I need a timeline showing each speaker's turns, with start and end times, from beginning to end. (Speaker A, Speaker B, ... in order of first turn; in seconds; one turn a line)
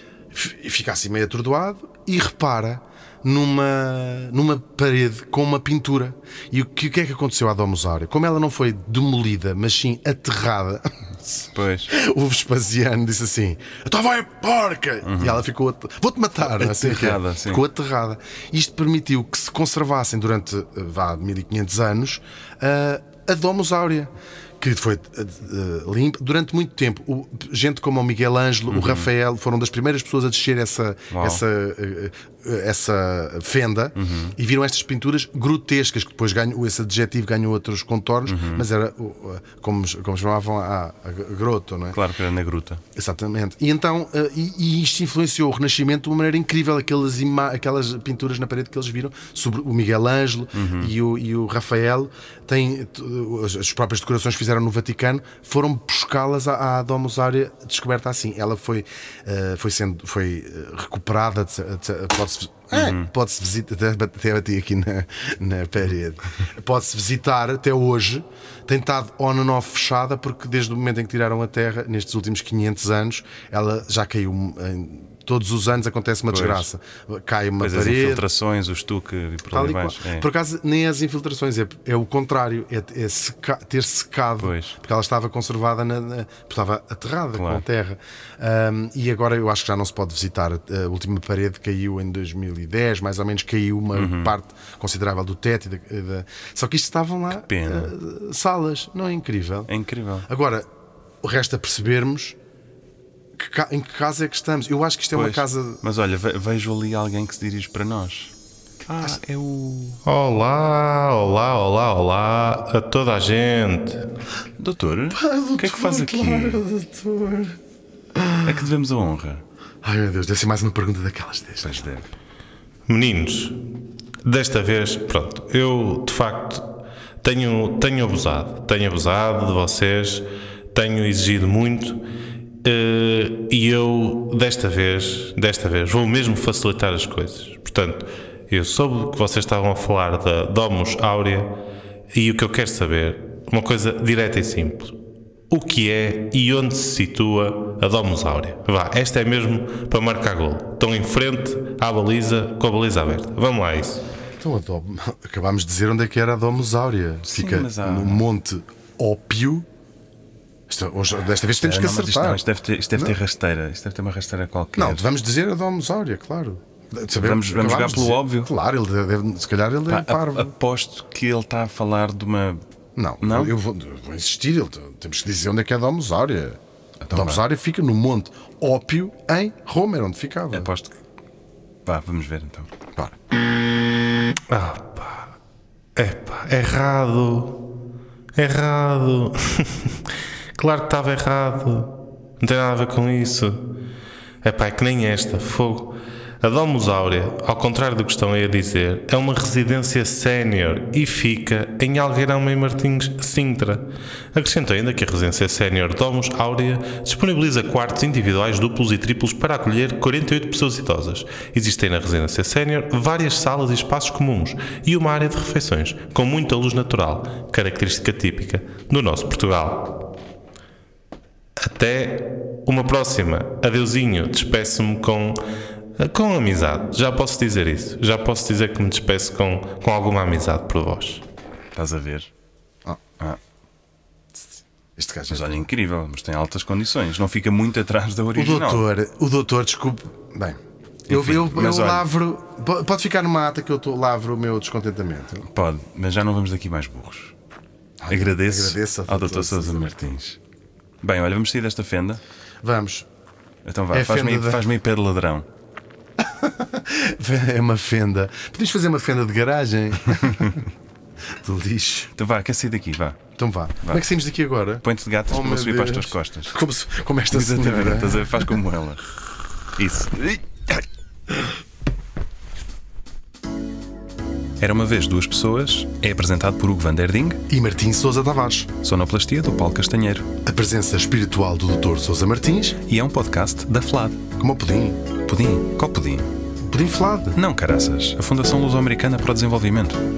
Speaker A: 0.3-42.0
Speaker B: 11.5-11.9
Speaker B: 15.0-15.4
Speaker B: 16.4-17.6
Speaker B: 28.7-29.1
Speaker B: 31.1-31.4
Speaker B: 34.0-34.4
Speaker B: 38.3-38.7
Speaker B: 41.9-42.8
Speaker A: 42.9-78.2
Speaker B: 50.5-50.9
Speaker B: 62.7-63.1
Speaker B: 76.3-76.7
Speaker B: 77.6-80.2
Speaker A: 79.5-99.7
Speaker B: 84.4-84.8
Speaker B: 87.3-87.6
Speaker B: 93.9-94.3
Speaker B: 97.3-97.9
Speaker B: 99.7-100.3
Speaker A: 100.3-100.7
Speaker A: 101.2-102.3
Speaker A: 103.4-105.8
Speaker B: 105.1-108.3
Speaker B: 108.8-110.0
Speaker C: 110.0-114.0
Speaker B: 114.6-116.6
Speaker A: 115.1-117.6
Speaker A: 118.1-118.5
Speaker B: 118.4-119.4
Speaker A: 119.8-121.9
Speaker B: 121.6-122.1
Speaker C: 122.9-123.6
Speaker C: 124.2-126.6
Speaker C: 127.2-132.0
Speaker C: 132.6-141.5
Speaker C: 142.1-144.9
Speaker C: 145.5-154.0
Speaker A: 154.4-159.7
Speaker B: 157.2-158.2
Speaker A: 160.7-163.2
Speaker B: 161.6-165.1
Speaker A: 164.8-170.5
Speaker B: 167.2-168.5
Speaker B: 169.9-172.6
Speaker A: 172.9-176.6
Speaker B: 173.2-173.5
Speaker B: 177.0-177.4
Speaker A: 177.1-180.7
Speaker B: 180.5-180.9
Speaker B: 181.8-182.7
Speaker C: 184.5-185.3
Speaker C: 185.9-187.6
Speaker C: 188.3-190.0
Speaker C: 190.6-193.6
Speaker C: 194.4-220.0
Speaker C: 221.6-225.4
Speaker C: 226.0-231.2
Speaker B: 231.7-232.3
Speaker A: 235.0-235.7
Speaker B: 235.3-238.8
Speaker A: 238.3-245.4
Speaker B: 241.1-242.1
Speaker B: 245.4-247.3
Speaker A: 248.0-250.1
Speaker B: 248.1-250.4
Speaker B: 251.0-252.2
Speaker A: 252.6-253.1
Speaker B: 253.6-255.5
Speaker A: 253.9-254.7
Speaker A: 256.2-260.6
Speaker A: 261.4-262.1
Speaker B: 262.1-263.2
Speaker A: 263.4-268.5
Speaker B: 264.8-266.6
Speaker B: 267.3-269.0
Speaker B: 269.8-270.4
Speaker B: 274.6-277.4
Speaker A: 277.5-278.7
Speaker B: 278.8-280.3
Speaker A: 280.4-282.8
Speaker B: 282.8-284.2
Speaker A: 284.4-285.0
Speaker B: 285.2-286.3
Speaker A: 286.6-287.4
Speaker B: 287.4-290.0